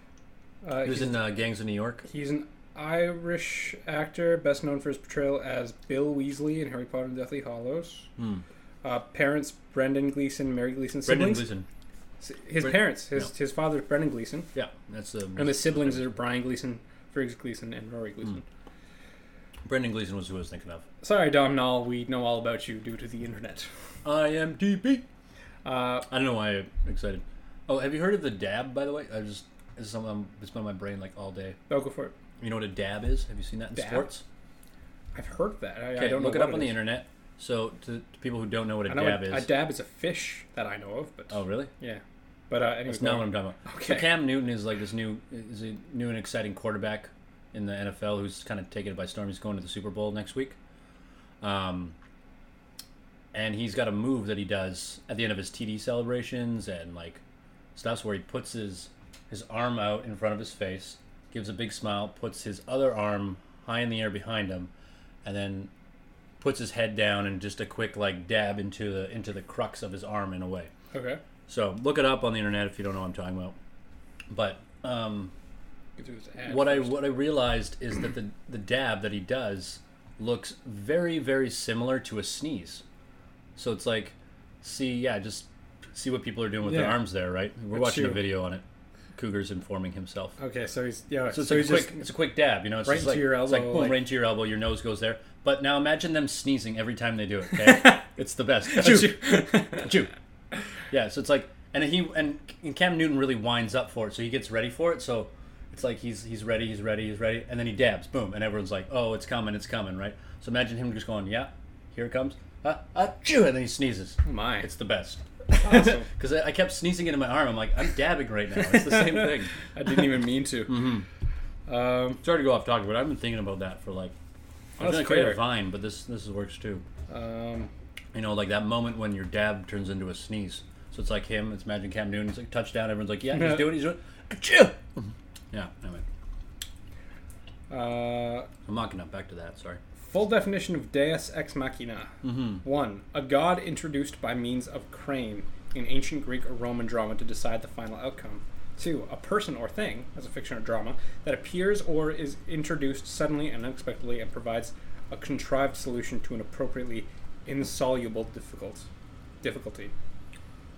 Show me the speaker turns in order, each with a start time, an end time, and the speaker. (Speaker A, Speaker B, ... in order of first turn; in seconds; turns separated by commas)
Speaker A: 0.6-1.3, Speaker B: 0.8-2.0, Speaker A: 2.0-8.1, Speaker B: 8.2-8.4, Speaker A: 8.8-11.5, Speaker B: 11.0-11.7, Speaker A: 12.2-14.5, Speaker B: 12.6-13.3, Speaker B: 14.5-16.1, Speaker A: 15.3-18.4, Speaker B: 19.6-20.8, Speaker A: 21.0-23.7, Speaker B: 24.0-25.0, Speaker A: 25.6-26.1, Speaker B: 26.1-31.6, Speaker A: 31.7-32.1, Speaker B: 32.4-34.2, Speaker A: 33.7-34.1, Speaker A: 35.1-36.9, Speaker B: 36.0-39.5, Speaker A: 38.9-44.2, Speaker B: 41.3-41.7, Speaker B: 42.9-50.5, Speaker B: 51.4-51.9, Speaker B: 53.3-57.2, Speaker B: 57.8-64.7, Speaker B: 65.2-65.7, Speaker B: 66.4-70.7, Speaker A: 70.9-71.2, Speaker B: 71.5-73.6, Speaker B: 74.3-75.3, Speaker A: 76.0-77.0, Speaker B: 76.4-82.8, Speaker B: 83.5-88.6, Speaker A: 86.6-87.1, Speaker A: 87.7-88.2, Speaker B: 89.1-90.3, Speaker A: 90.4-92.1, Speaker B: 91.3-100.1, Speaker A: 92.8-94.1, Speaker A: 97.5-98.0, Speaker A: 98.6-99.9, Speaker B: 100.9-119.5, Speaker A: 114.2-114.7, Speaker A: 115.5-116.1, Speaker A: 118.6-121.0, Speaker B: 120.7-121.0, Speaker A: 121.7-122.2, Speaker B: 122.2-124.1, Speaker A: 124.8-125.4, Speaker B: 124.8-126.8, Speaker A: 127.1-127.7, Speaker B: 128.1-136.0, Speaker A: 133.3-133.8, Speaker A: 137.7-138.5, Speaker B: 138.7-139.8, Speaker A: 140.0-158.9, Speaker B: 142.2-142.6, Speaker A: 159.4-159.9